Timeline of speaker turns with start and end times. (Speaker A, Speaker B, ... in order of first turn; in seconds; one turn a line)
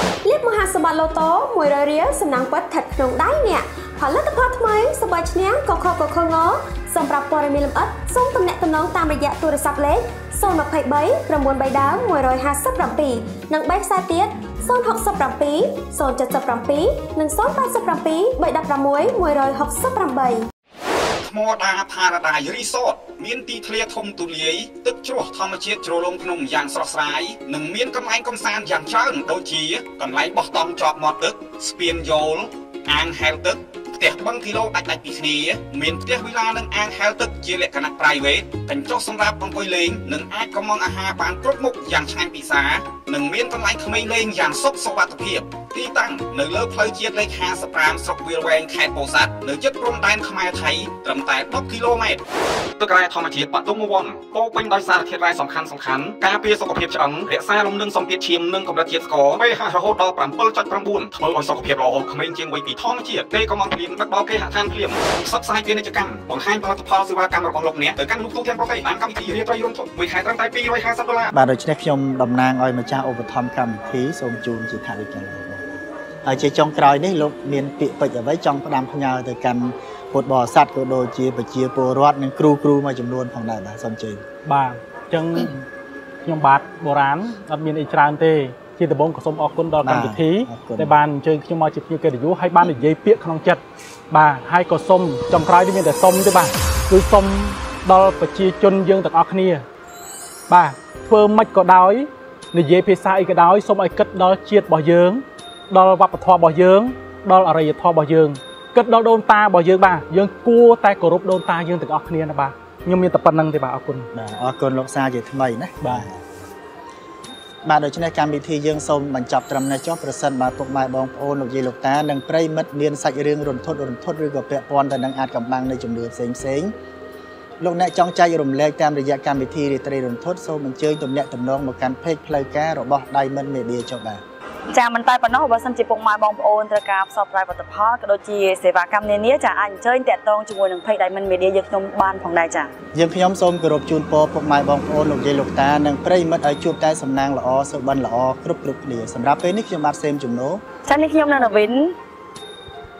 Speaker A: 0.2-20.5
Speaker B: 21.2-52.2
Speaker B: 52.8-71.3
Speaker C: 71.3-84.2
Speaker D: 84.4-85.5
Speaker D: 86.2-99.6
Speaker C: 89.8-91.0
Speaker D: 100.5-114.1
Speaker C: 114.1-116.3
Speaker D: 115.8-116.1
Speaker C: 117.6-126.7
Speaker C: 127.6-134.2
Speaker E: 134.7-142.7
Speaker C: 142.9-150.6
Speaker E: 150.8-152.0